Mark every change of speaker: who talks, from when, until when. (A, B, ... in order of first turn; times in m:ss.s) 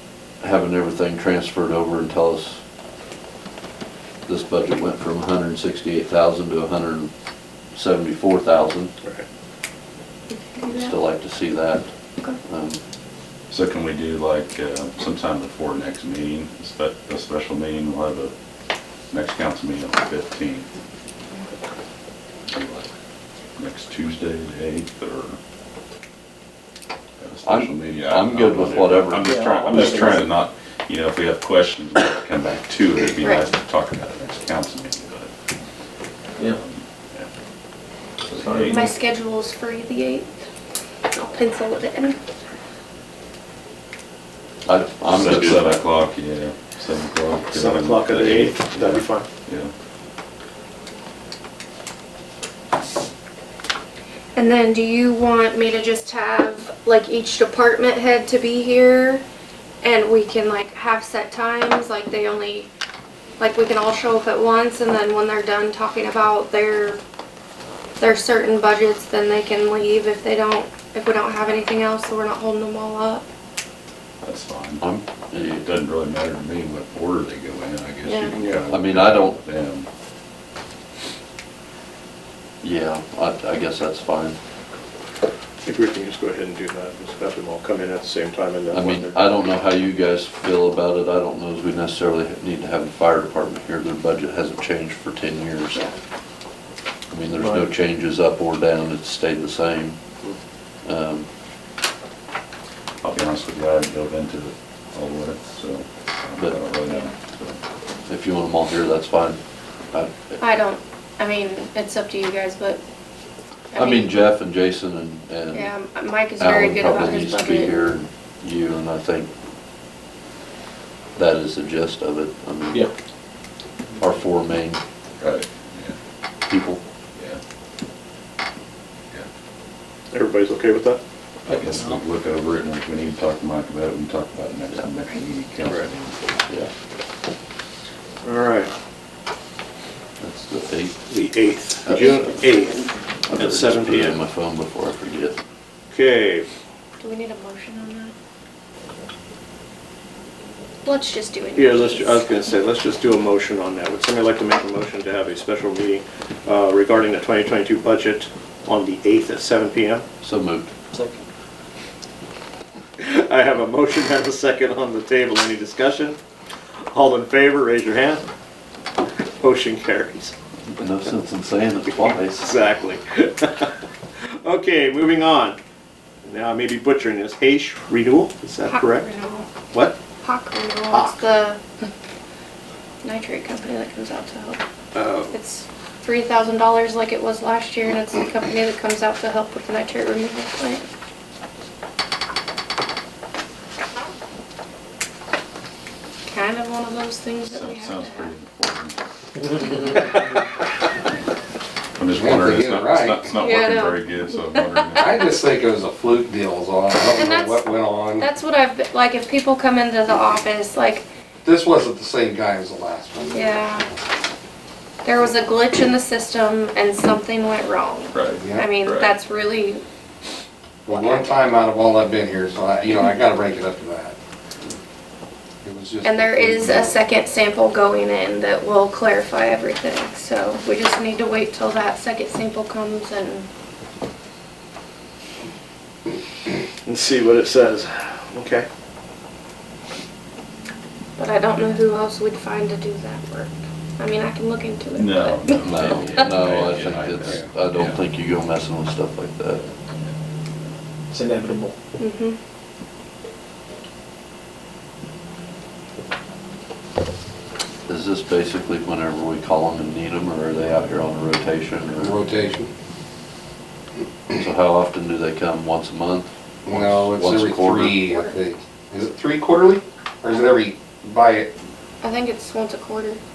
0:00.4-0:02.6 A
0:04.3-0:07.1 A
0:07.7-0:08.9 A
0:10.3-0:11.0 B
0:10.7-0:11.9 A
0:12.4-0:12.8 A
0:13.5-0:18.3 C
0:19.1-0:20.7 C
0:22.5-0:22.9 C
0:23.6-0:25.4 C
0:27.2-0:35.3 C
0:27.4-0:29.3 A
0:29.2-0:30.3 D
0:33.2-0:33.5 B
0:36.4-0:37.3 C
0:38.2-0:38.9 C
0:38.4-0:38.8 D
0:38.7-0:40.3 B
0:41.1-0:42.2 B
0:44.7-0:45.7 A
0:45.1-0:49.7 C
0:47.5-0:49.3 E
0:54.4-0:59.2 B
0:59.8-1:02.7 B
1:03.4-1:07.0 B
1:08.0-1:13.2 B
1:14.2-1:14.8 C
1:14.8-1:15.7 A
1:15.3-1:19.9 C
1:18.1-1:18.4 B
1:18.3-1:18.6 E
1:18.7-1:19.4 A
1:22.6-1:24.4 A
1:25.6-1:29.4 E
1:28.7-1:35.8 A
1:37.1-1:40.0 A
1:40.8-1:41.3 A
1:43.0-1:47.6 C
1:48.1-1:49.4 A
1:49.9-1:50.4 A
1:50.4-1:52.8 B
1:53.7-1:54.2 B
1:53.8-1:55.7 A
1:55.5-1:57.8 B
1:56.4-1:59.3 A
2:01.2-2:02.9 A
2:04.0-2:04.8 A
2:05.2-2:06.0 C
2:06.5-2:06.8 A
2:10.1-2:11.0 E
2:11.5-2:16.5 C
2:11.5-2:11.9 D
2:18.2-2:18.7 E
2:20.2-2:21.0 A
2:21.1-2:24.2 E
2:21.9-2:22.2 A
2:21.9-2:22.9 B
2:23.3-2:25.4 A
2:25.9-2:26.5 E
2:27.0-2:28.1 B
2:30.8-2:32.3 B
2:31.6-2:40.0 E
2:40.2-2:40.7 A
2:40.9-2:41.2 D
2:43.0-2:46.2 E
2:46.9-2:48.2 E
2:49.4-2:50.3 E
2:50.7-2:52.5 A
2:52.0-2:55.6 E
2:56.2-2:59.1 E
2:58.7-2:59.6 B
2:59.6-3:00.0 E
3:00.2-3:01.6 B
3:00.9-3:01.2 E
3:03.0-3:04.6 B
3:05.0-3:05.3 E
3:05.3-3:10.9 B
3:16.3-3:18.3 B
3:17.4-3:19.0 C
3:19.6-3:20.0 B
3:22.0-3:25.2 C
3:22.2-3:23.2 F
3:23.4-3:24.9 B
3:25.0-3:28.3 F
3:27.2-3:31.1 B
3:31.4-3:33.8 F
3:33.3-3:33.9 B
3:35.0-3:39.8 B
3:38.1-3:39.1 C
3:38.4-3:38.7 F
3:40.9-3:44.2 F
3:40.9-3:41.5 B
3:45.6-3:47.0 F
3:46.0-3:53.5 B
3:56.8-3:58.7 E
4:01.2-4:05.8 B
4:05.0-4:08.0 C
4:05.6-4:09.6 A
4:09.6-4:10.1 C
4:11.1-4:11.8 D
4:12.0-4:12.4 B
4:17.9-4:22.2 A
4:22.0-4:22.7 F
4:24.3-4:28.0 A
4:26.7-4:31.5 F
4:28.0-4:28.4 B
4:32.0-4:33.2 B